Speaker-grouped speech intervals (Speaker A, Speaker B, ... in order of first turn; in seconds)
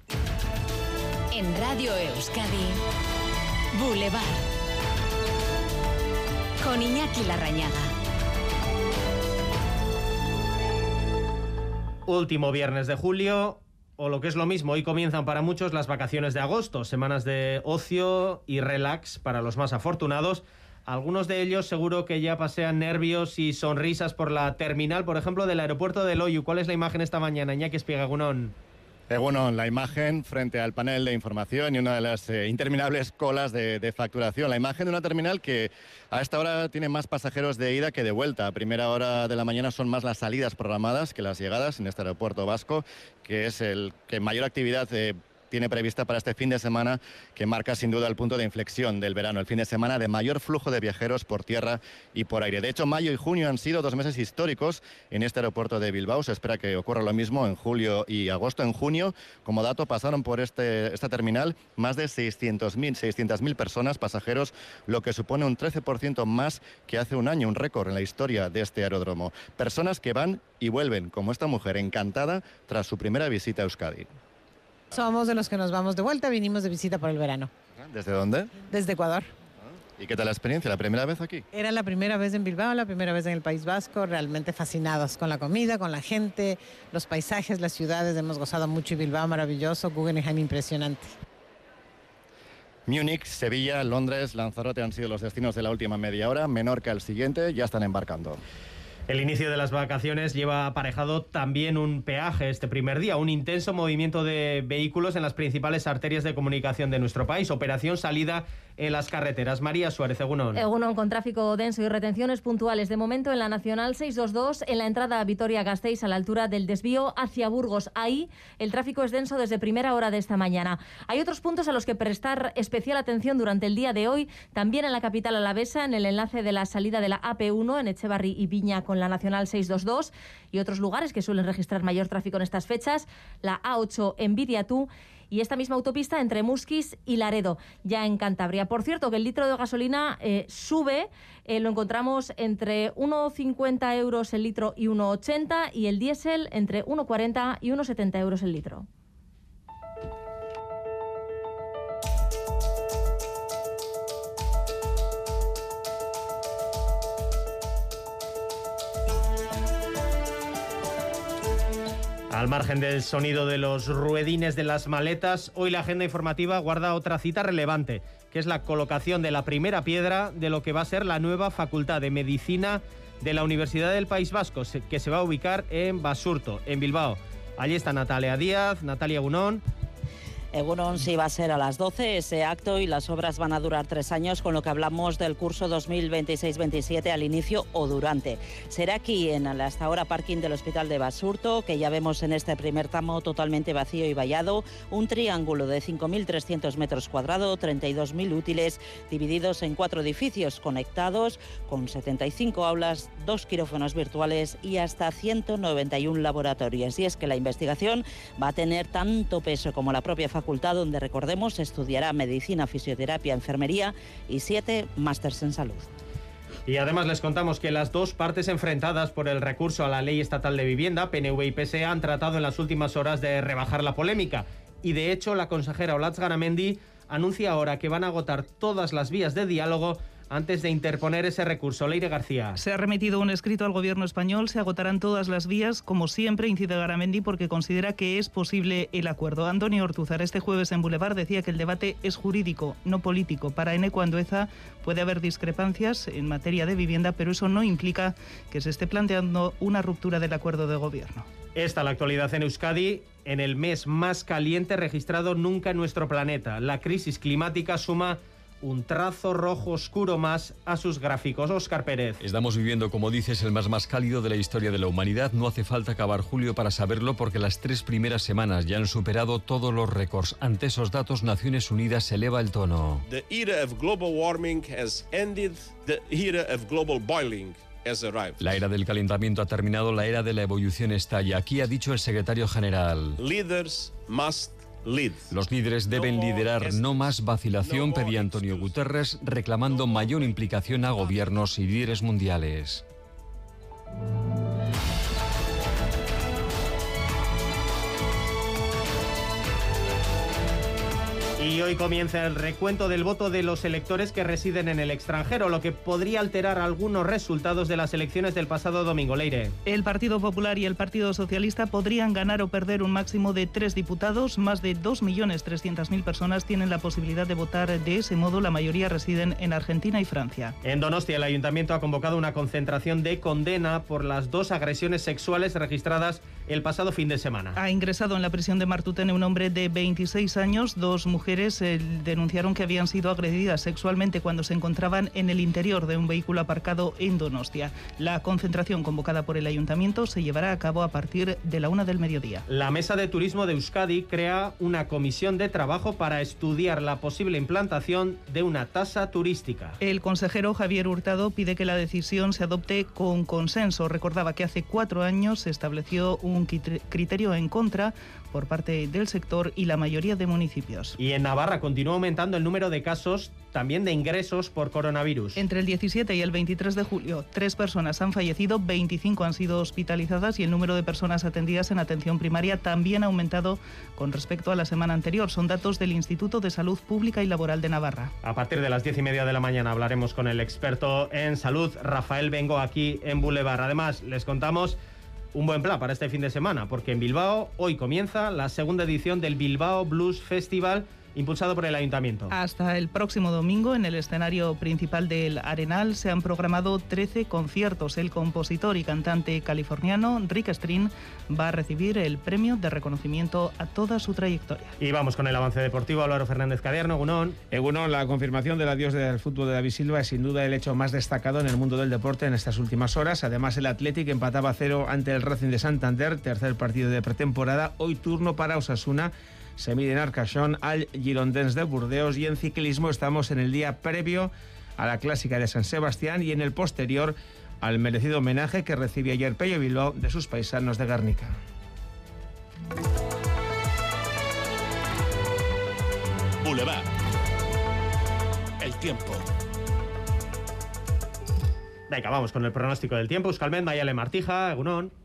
Speaker A: 1.3-2.8, 3.7-4.4, 6.6-7.9
Speaker B: 12.1-28.5, 99.1-110.7, 162.3-179.6, 216.7-232.6, 251.6-262.2, 301.4-309.5, 320.6-327.6, 342.5-349.8, 361.0-365.4, 378.2-384.8, 385.3-392.3, 404.8-407.4, 441.9-444.9
Speaker C: 29.1-74.1, 77.8-78.5, 80.0-81.4, 92.9-98.4
Speaker D: 74.9-77.5, 78.7-79.3, 81.5-91.1
Speaker E: 110.5-148.8
Speaker F: 180.5-215.9
Speaker G: 232.5-251.2, 309.6-320.5, 327.5-342.4, 349.8-361.0, 365.4-378.1, 392.3-404.7
Speaker H: 262.2-273.1, 278.4-283.2, 285.3-292.8
Speaker I: 273.1-278.3, 283.2-285.2, 285.9-286.8, 287.7-288.6, 436.4-436.8, 438.6-439.2
Speaker J: 407.5-431.4